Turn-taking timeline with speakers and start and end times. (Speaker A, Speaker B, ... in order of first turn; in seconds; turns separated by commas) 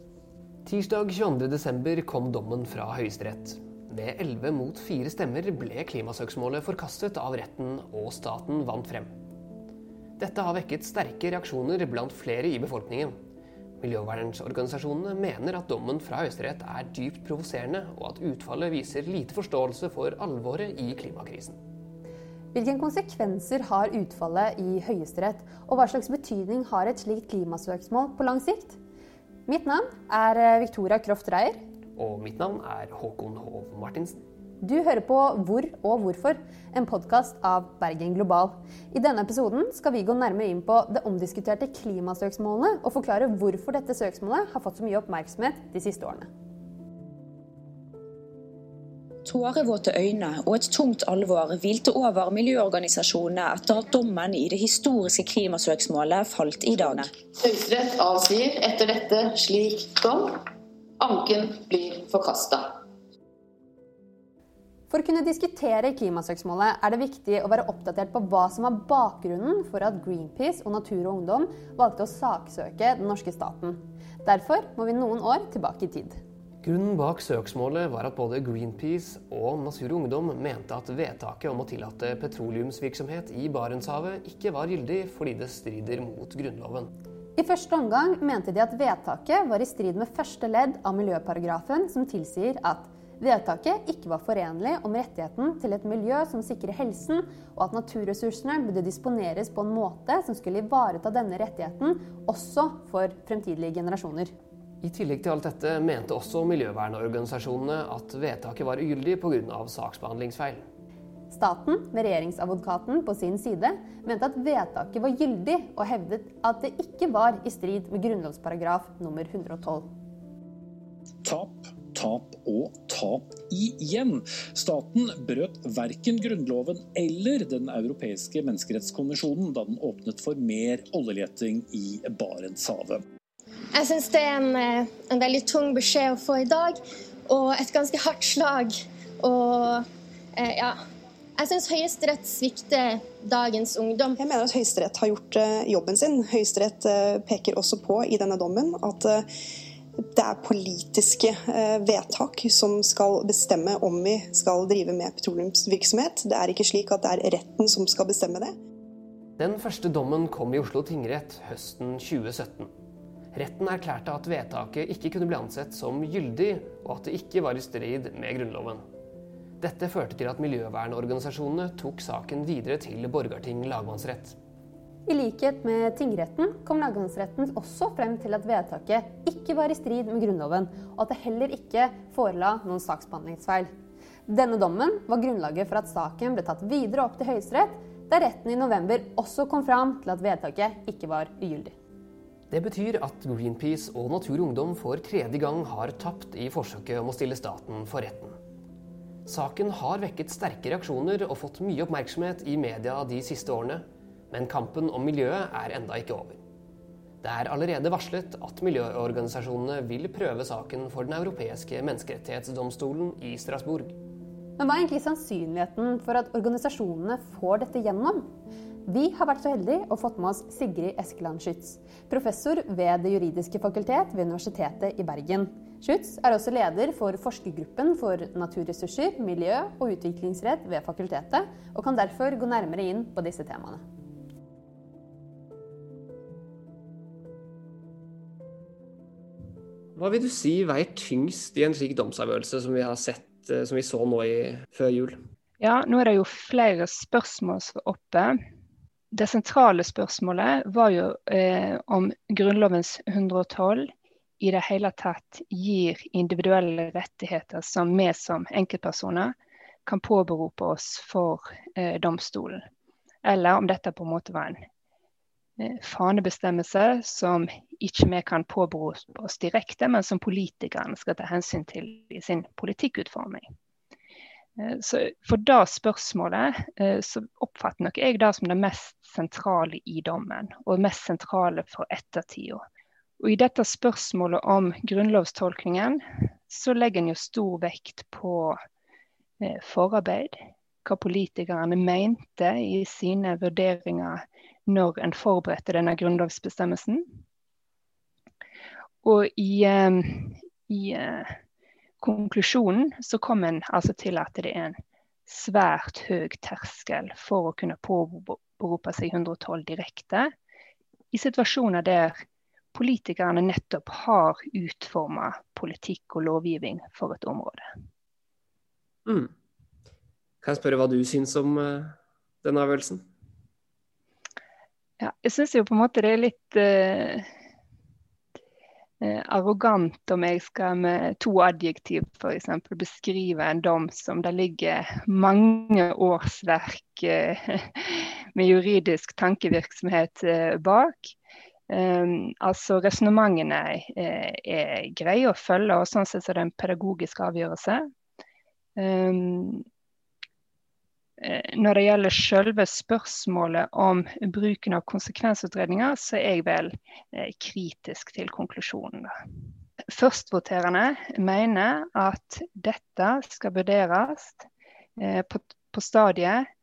Speaker A: 0.7-9.1, Speaker A: 10.2-13.1, Speaker A: 13.8-21.6, Speaker B: 22.5-28.8, Speaker B: 29.5-31.6, Speaker A: 32.0-34.2, Speaker B: 34.6-46.3, Speaker C: 49.2-57.1, Speaker D: 57.3-60.4, Speaker D: 61.0-62.8, Speaker B: 64.9-76.2, Speaker A: 76.6-86.9, Speaker B: 87.4-104.3, Speaker A: 104.8-110.7, Speaker B: 111.3-119.9, Speaker E: 121.2-133.0, Speaker F: 133.7-140.8, Speaker F: 141.4-144.2, Speaker G: 144.2-149.2, Speaker G: 150.2-158.5, Speaker A: 159.4-162.7, Speaker A: 163.3-168.8, Speaker A: 169.6-174.4, Speaker B: 175.1-183.7, Speaker B: 184.3-191.8, Speaker A: 192.5-198.4, Speaker A: 199.3-206.4, Speaker A: 207.2-214.0, Speaker B: 214.6-218.3, Speaker B: 218.9-233.8, Speaker A: 239.9-245.2, Speaker H: 245.6-248.3, Speaker H: 249.1-259.3, Speaker H: 259.9-262.6, Speaker H: 263.2-264.6, Speaker H: 265.6-273.5, Speaker H: 274.6-282.6, Speaker H: 283.2-288.6, Speaker H: 289.4-297.0, Speaker H: 299.0-301.4, Speaker H: 302.0-304.8, Speaker H: 305.3-310.3, Speaker H: 311.1-312.1, Speaker H: 312.7-317.7, Speaker A: 319.1-319.3, Speaker A: 320.4-323.1, Speaker H: 325.0-327.3, Speaker H: 329.0-341.1, Speaker H: 341.7-347.8, Speaker H: 348.8-349.6, Speaker H: 351.2-359.1, Speaker H: 359.9-364.5, Speaker H: 365.0-366.5